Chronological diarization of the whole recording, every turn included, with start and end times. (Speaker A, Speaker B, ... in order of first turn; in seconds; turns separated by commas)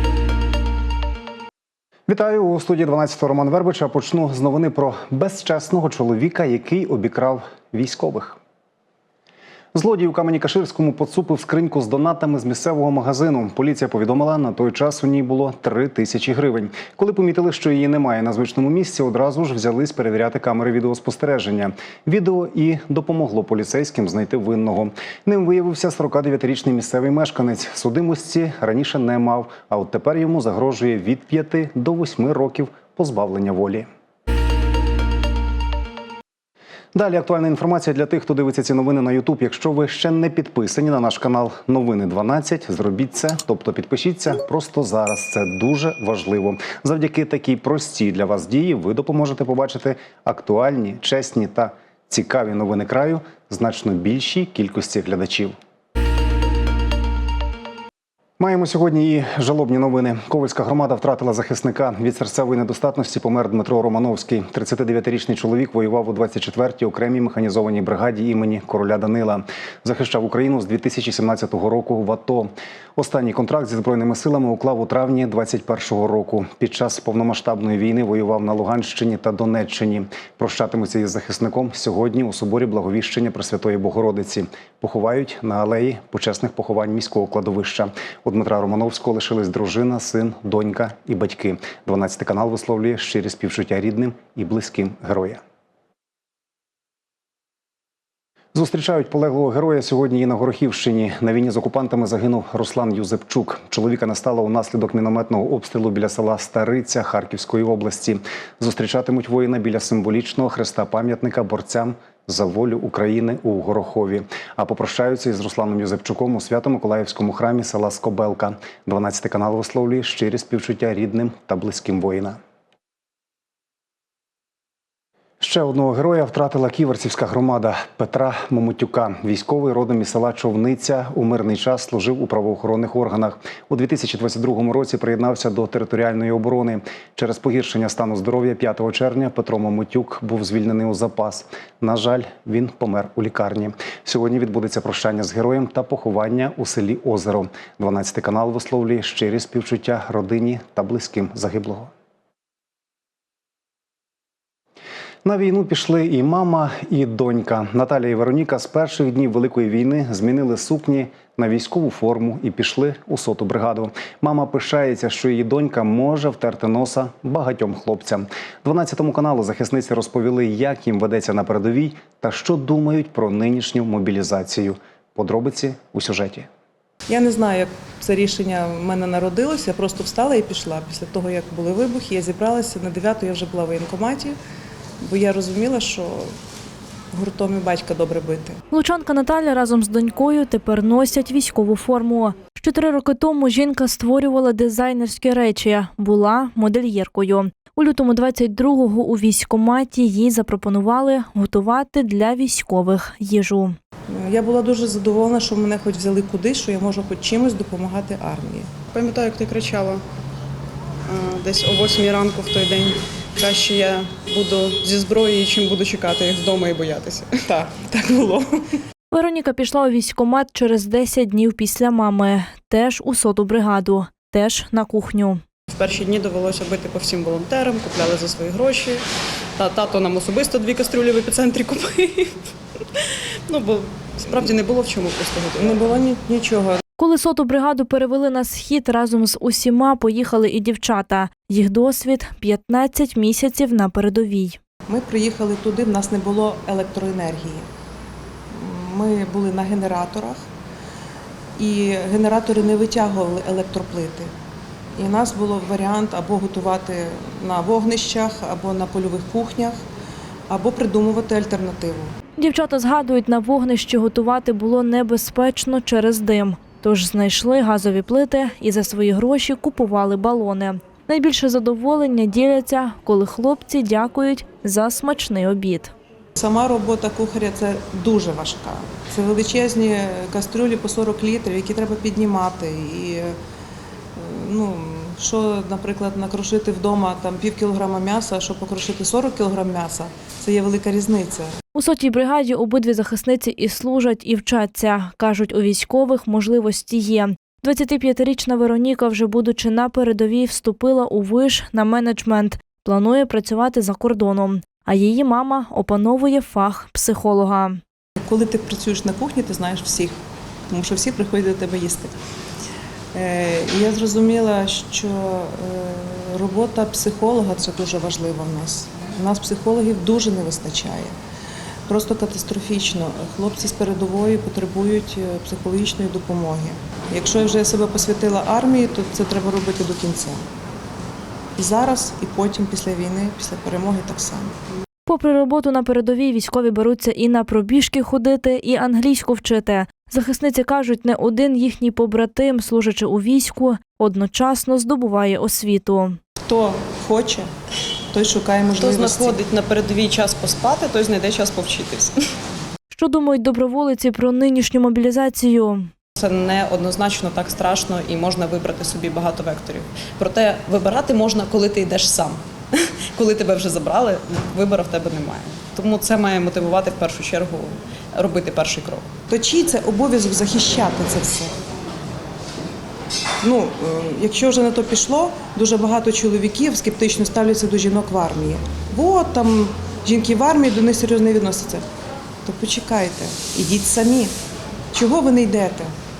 Speaker A: 2.1-8.4, Speaker A: 9.7-33.9, Speaker A: 36.9-55.5, Speaker A: 58.4-95.4, Speaker A: 98.5-122.4, Speaker A: 125.4-151.9, Speaker A: 155.2-176.5, Speaker B: 177.1-184.4, Speaker B: 185.0-186.3, Speaker B: 187.1-188.6, Speaker C: 188.7-203.7, Speaker B: 204.1-208.8, Speaker D: 208.9-210.0, Speaker D: 211.1-218.4, Speaker C: 219.1-225.4, Speaker D: 225.7-229.1, Speaker D: 229.6-232.4, Speaker D: 233.5-236.8, Speaker B: 235.9-236.2, Speaker C: 237.0-244.6, Speaker B: 244.9-247.7, Speaker B: 248.5-250.4, Speaker B: 251.6-254.3, Speaker B: 254.9-259.8, Speaker B: 260.5-262.1, Speaker C: 262.4-275.9, Speaker B: 276.4-283.4, Speaker B: 284.1-291.6, Speaker C: 291.7-307.8, Speaker B: 308.2-310.2, Speaker B: 310.7-312.1, Speaker B: 313.1-321.1, Speaker B: 321.9-330.4, Speaker B: 331.6-334.5, Speaker C: 335.1-346.2, Speaker B: 346.4-347.5, Speaker B: 348.1-349.4, Speaker D: 348.8-352.2, Speaker C: 352.9-355.9, Speaker D: 356.2-369.1, Speaker B: 369.3-371.5, Speaker B: 373.4-381.8, Speaker B: 382.4-384.3, Speaker B: 384.9-385.9